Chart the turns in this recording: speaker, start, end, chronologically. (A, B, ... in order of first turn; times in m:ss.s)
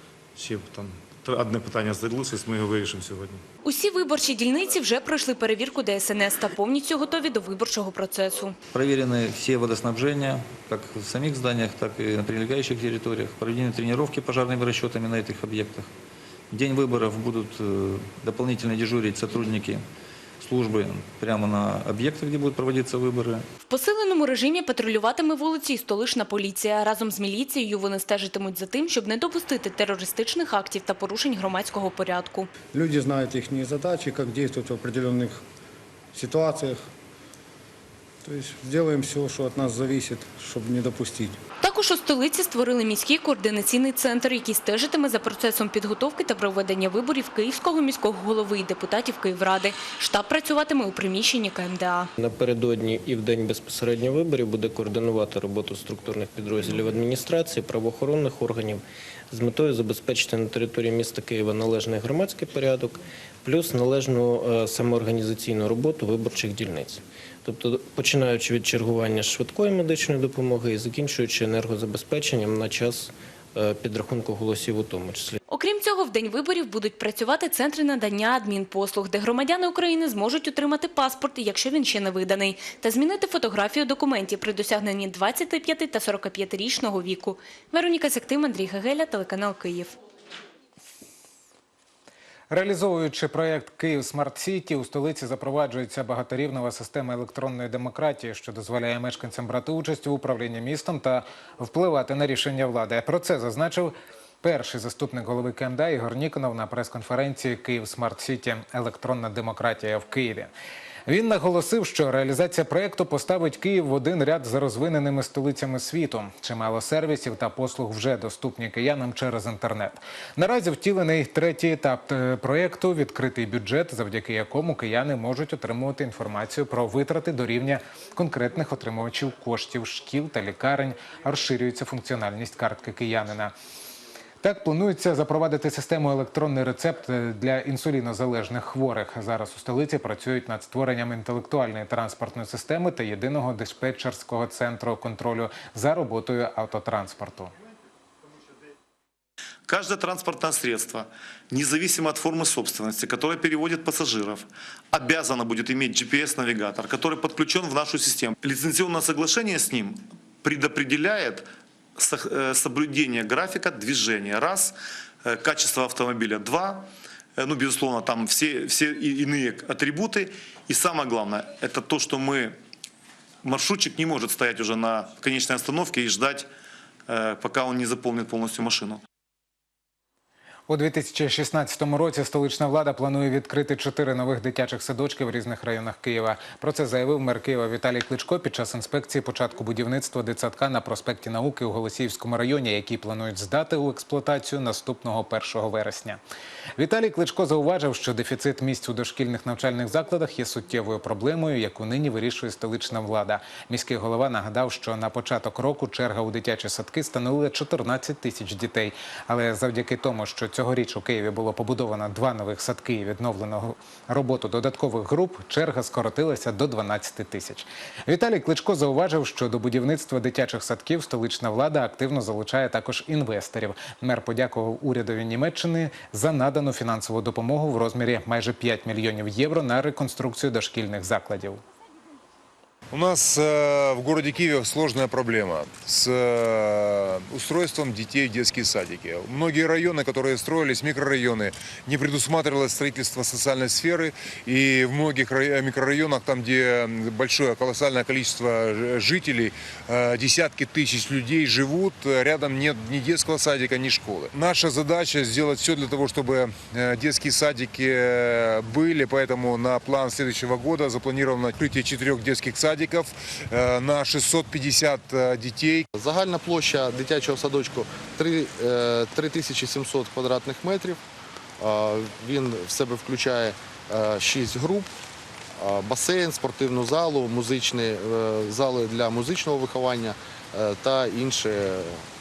0:00.4-0:03.4 A
0:03.6-0:08.6 B
0:08.7-0:15.9 C
0:16.5-0:19.8 C
0:20.4-0:23.5 C
0:23.7-0:32.5 B
0:32.7-0:35.4 D
0:36.1-0:36.8 D
0:38.2-0:41.4 D
0:41.6-0:52.1 B
0:52.2-1:15.4 E
1:15.5-1:30.0 B
1:32.5-1:50.5 F
1:51.1-2:13.5 F
2:14.4-2:27.5 F
2:29.7-2:41.5 G
2:42.0-2:52.6 G
2:53.4-2:56.5 G
2:57.1-2:59.0 G
3:00.7-3:16.2 F
3:16.8-3:51.6 F
3:52.9-4:25.8 H
4:25.9-4:31.0 I
4:31.6-4:34.9 I
4:35.6-4:42.0 I